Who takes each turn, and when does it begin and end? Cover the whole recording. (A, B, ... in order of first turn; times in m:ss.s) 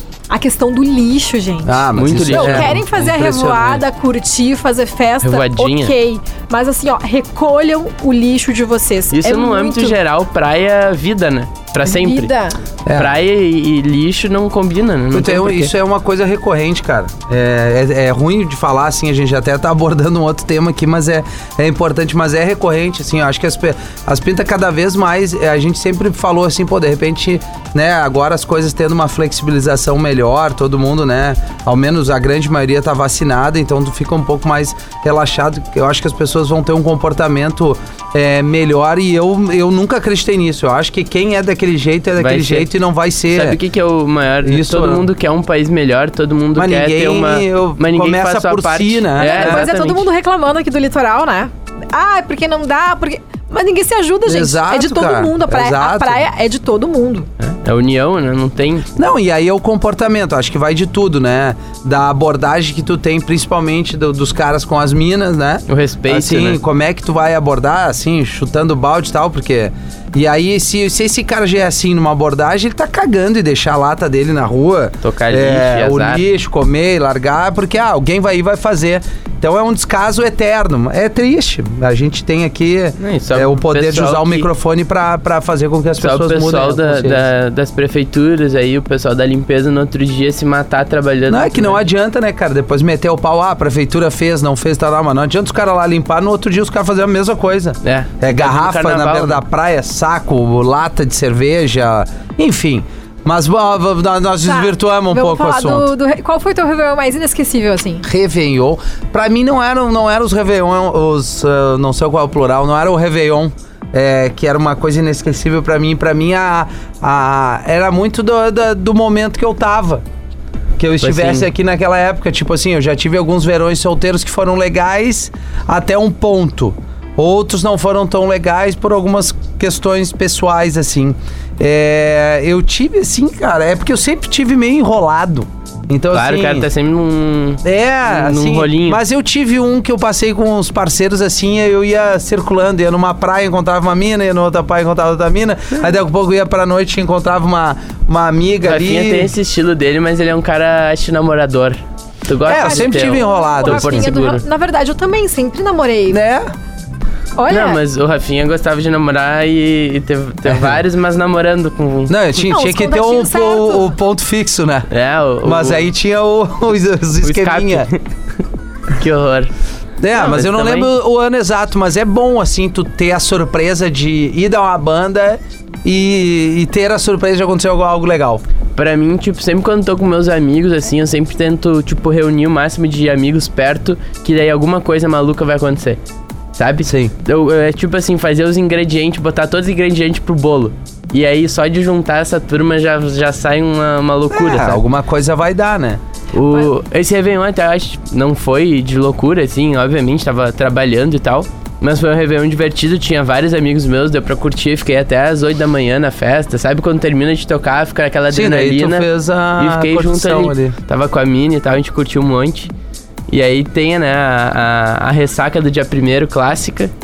0:00.3-0:10.0 A
0:01.6-0:03.8 B
0:02.0-0:02.8 C
0:05.2-0:05.9 C
0:09.1-0:12.3 C
0:11.8-0:12.6 A
0:12.8-0:13.2 B
0:12.9-0:15.7 C
0:15.1-0:43.6 B
0:42.2-0:42.7 C
0:43.3-0:50.0 C
0:44.4-0:45.1 B
0:46.6-0:49.6 B
0:49.2-0:57.3 A
0:54.2-0:56.2 B
0:57.4-0:58.9 C
0:59.0-1:27.2 B
1:05.7-1:06.6 C
1:15.0-1:16.2 C
1:23.0-1:24.5 C
1:26.0-1:31.8 C
1:31.3-1:45.9 B
1:37.8-1:39.4 C
1:44.4-1:48.0 A
1:48.0-2:00.0 B
2:00.8-2:16.7 B
2:01.0-2:01.4 C
2:16.1-2:19.0 C
2:17.6-2:29.3 B
2:28.6-2:34.4 C
2:32.5-2:34.1 B
2:32.5-2:36.2 A
2:36.1-2:36.5 B
2:37.4-2:37.8 A
2:37.5-2:42.1 C
2:40.5-2:40.8 B
2:42.1-2:44.9 B
2:42.4-2:43.9 A
2:44.9-2:45.8 C
2:45.4-2:47.9 B
2:47.2-2:48.0 C
2:48.9-2:49.5 C
2:50.0-2:58.4 B
2:50.2-2:50.9 C
2:58.8-3:06.0 C
3:06.6-3:14.8 C
3:06.8-3:07.1 B
3:14.3-3:16.0 B
3:16.3-3:29.1 C
3:28.3-3:30.7 B
3:29.6-3:32.7 C
3:33.3-3:36.9 C